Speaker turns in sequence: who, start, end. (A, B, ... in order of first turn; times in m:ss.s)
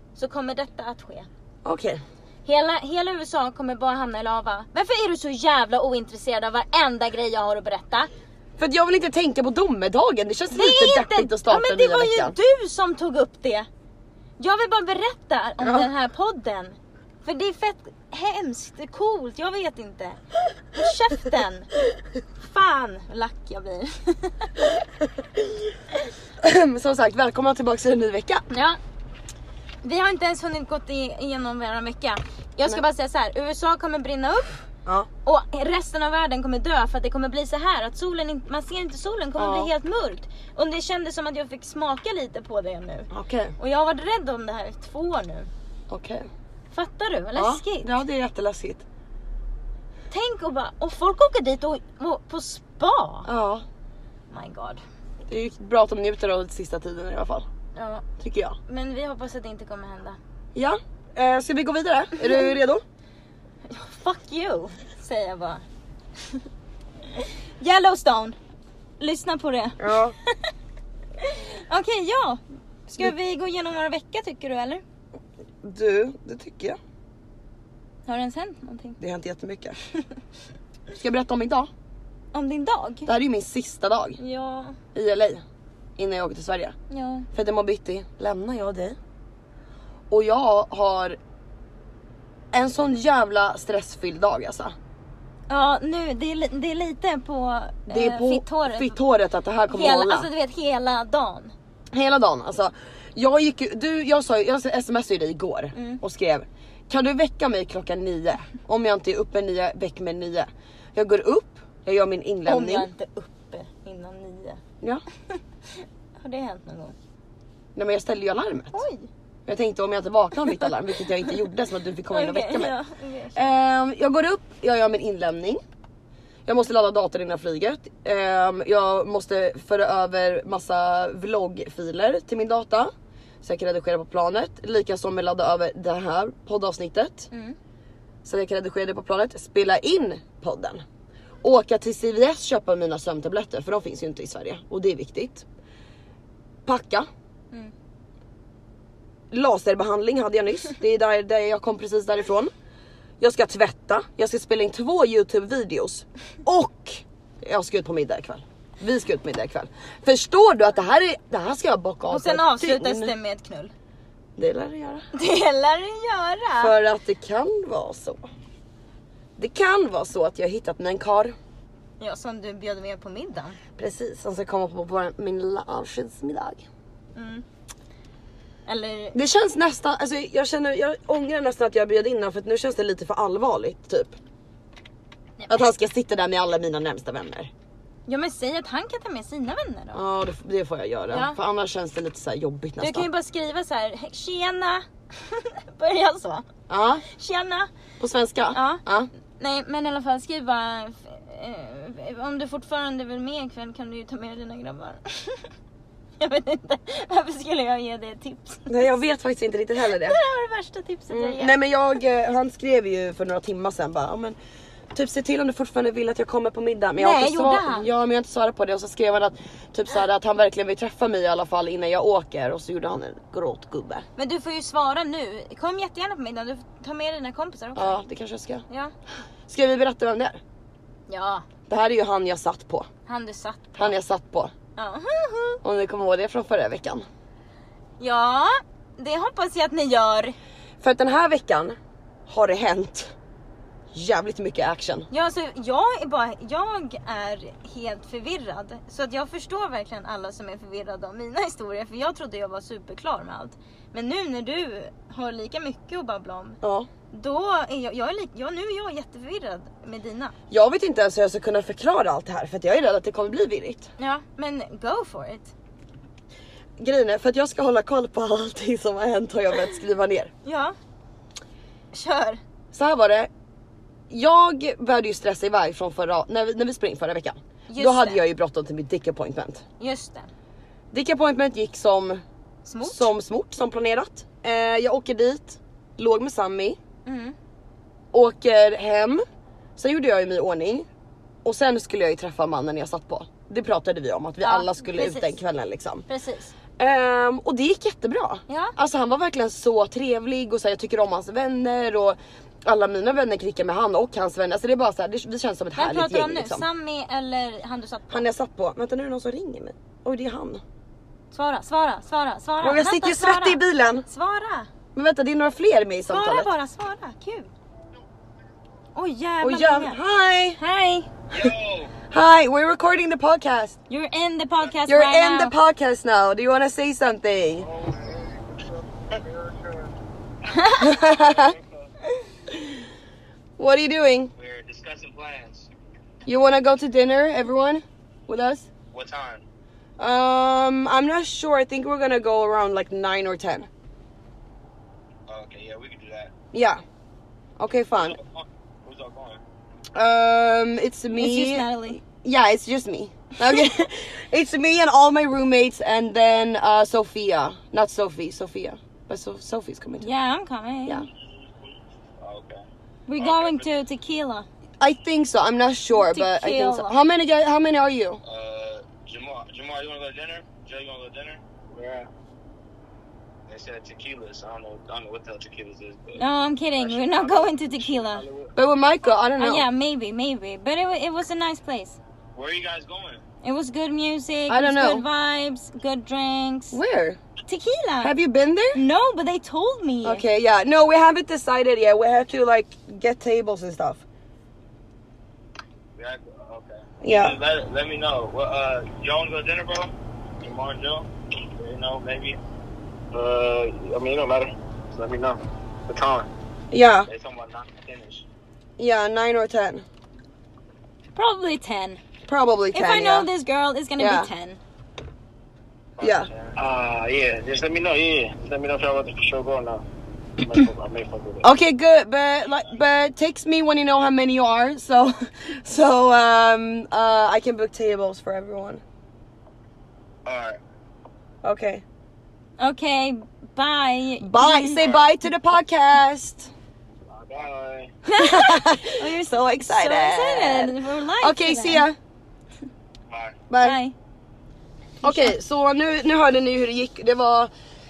0:00.2-0:01.3 A
0:01.6-0:02.0 B
0:02.4-0:08.1 A
0:08.6-0:12.4 B
0:10.5-0:13.7 A
0:14.4-0:20.2 A
0:15.6-0:15.9 B
0:20.8-0:21.7 A
0:22.4-0:24.5 A
0:25.3-0:25.6 B
0:26.4-0:28.4 B
0:28.5-0:28.8 A
0:29.8-0:34.6 A
0:35.2-0:45.5 A
0:39.4-0:39.7 B
0:43.1-0:43.5 B
0:45.9-0:46.3 B
0:46.7-0:47.9 A
0:47.4-0:48.8 B
0:50.1-0:53.3 A
0:53.2-0:53.6 B
0:54.3-0:54.8 A
0:55.3-0:57.5 B
0:57.8-0:58.0 A
0:58.2-0:58.6 B
0:58.7-1:00.2 A
1:00.5-1:02.8 B
1:03.7-1:05.6 A
1:07.1-1:08.4 A
1:09.0-1:10.4 A
1:09.8-1:10.1 B
1:11.2-1:14.8 A
1:15.6-1:16.8 B
1:18.0-1:19.0 A
1:19.0-1:19.8 B
1:20.9-1:21.7 B
1:22.3-1:23.1 A
1:23.0-1:24.2 B
1:24.2-1:24.8 A
1:24.9-1:25.4 B
1:26.0-1:26.8 B
1:26.9-1:27.3 A
1:27.3-1:29.0 B
1:30.1-1:31.2 B
1:32.5-1:34.8 B
1:35.5-1:39.0 A
1:37.9-1:40.3 B
1:39.7-1:41.5 A
1:41.9-1:52.9 B
1:45.7-1:46.0 A
1:52.4-1:54.6 A
1:55.7-1:56.9 A
1:57.8-1:58.8 B
1:58.7-1:59.1 A
1:59.4-2:02.7 B
2:02.1-2:03.5 A
2:03.3-2:05.6 B
2:06.4-2:12.9 B
2:13.4-2:17.3 B
2:17.3-2:17.6 A
2:18.2-2:20.8 B
2:21.4-2:25.4 B
2:26.6-2:27.1 B
2:29.3-2:32.5 B
2:33.2-2:43.1 B
2:42.1-2:43.7 A
2:44.4-2:45.0 B
2:45.1-2:46.8 A
2:46.6-2:48.2 B
2:49.4-2:51.4 B
2:52.0-2:53.6 A
2:53.8-2:56.6 B
2:57.1-2:57.4 A
2:58.7-2:59.2 A
2:59.1-3:04.2 B
3:05.4-3:05.6 A
3:05.5-3:07.5 B
3:08.0-3:10.0 A
3:09.9-3:13.1 B
3:11.1-3:11.4 A
3:12.8-3:16.4 A
3:16.7-3:17.0 B
3:17.0-3:17.7 A
3:18.0-3:19.1 B
3:18.5-3:18.8 A
3:19.4-3:25.4 A
3:26.2-3:28.9 A
3:28.7-3:30.2 B
3:29.8-3:31.6 A
3:31.1-3:34.4 B
3:34.9-3:44.0 B
3:37.0-3:37.9 A
3:44.2-3:48.0 A
3:47.8-3:48.6 B
3:49.5-3:50.4 B
3:51.1-3:51.4 A
3:51.7-3:52.9 B
3:53.0-3:53.9 A
3:53.8-3:54.5 B
3:54.8-3:55.6 A
3:55.6-3:57.0 B
3:58.0-4:00.4 A
4:00.8-4:01.8 B
4:02.3-4:03.1 B
4:03.9-4:05.1 B
4:05.1-4:16.6 A
4:16.6-4:16.9 B
4:17.1-4:20.3 A
4:20.5-4:23.9 B
4:24.0-4:25.5 A
4:26.8-4:30.3 B
4:30.4-4:30.8 A
4:31.9-4:32.4 A
4:32.7-4:33.3 B
4:34.1-4:39.6 B
4:37.7-4:38.2 A
4:39.8-4:40.3 A
4:40.9-4:42.2 B
4:42.6-4:43.1 A
4:42.8-4:46.8 B
4:47.0-4:47.3 A
4:48.1-4:49.2 B
4:49.8-4:50.9 B
4:51.4-4:56.0 B
4:54.4-4:55.3 A
4:56.1-4:56.5 A
4:56.8-5:06.6 B
4:58.5-4:58.8 A
5:05.8-5:08.2 A
5:08.1-5:10.6 B
5:11.3-5:14.7 A
5:12.6-5:14.0 B
5:14.9-5:16.5 B
5:16.1-5:17.5 A
5:18.9-5:20.0 A
5:19.4-5:20.6 B
5:20.6-5:21.1 A
5:21.3-5:21.9 C
5:22.1-5:23.8 B
5:23.9-5:25.5 A
5:24.9-5:27.7 B
5:27.6-5:29.9 C
5:30.5-5:30.8 A
5:30.5-5:31.9 C
5:30.8-5:31.5 B
5:33.6-5:34.3 B
5:34.4-5:35.7 C
5:36.2-5:38.7 B
5:38.9-5:39.4 C
5:40.0-5:43.7 B
5:45.3-5:46.3 C
5:46.5-5:46.8 B
5:47.6-5:48.2 B
5:48.0-5:49.4 C
5:49.9-6:00.1 B
5:51.1-5:52.0 A
6:00.0-6:01.0 A
6:02.2-6:02.6 C
6:03.1-6:04.5 A
6:03.2-6:03.7 C
6:04.8-6:08.2 B
6:06.0-6:07.0 A
6:08.2-6:12.1 C
6:13.5-6:16.2 C
6:16.2-6:18.2 A
6:16.8-6:18.5 C
6:18.6-6:19.6 B
6:19.4-6:22.0 A
6:22.4-6:23.2 C
6:23.4-6:26.8 A
6:24.5-6:25.0 B
6:26.7-6:27.2 B
6:27.4-6:28.1 A
6:28.0-6:28.8 B
6:28.8-6:30.2 A
6:30.0-6:34.0 B
6:36.0-6:42.4 C
6:37.0-6:37.4 B
6:43.1-6:46.3 C
6:46.7-6:47.1 B
6:47.1-6:48.2 C
6:48.8-6:49.8 B
6:51.2-6:52.0 A
6:52.3-6:53.3 B
6:52.7-6:54.6 A
6:54.0-6:54.3 B
6:56.0-6:59.8 C
6:56.0-6:56.3 B
7:00.4-7:01.4 C
7:01.4-7:08.8 B
7:10.2-7:10.6 C
7:11.4-7:11.8 B
7:12.6-7:14.9 A
7:14.2-7:16.5 B
7:17.1-7:17.9 C
7:18.0-7:21.9 A
7:18.1-7:22.0 B
7:23.1-7:23.4 C
7:23.5-7:23.8 B
7:23.6-7:23.9 A
7:25.0-7:27.5 B
7:25.0-7:25.3 A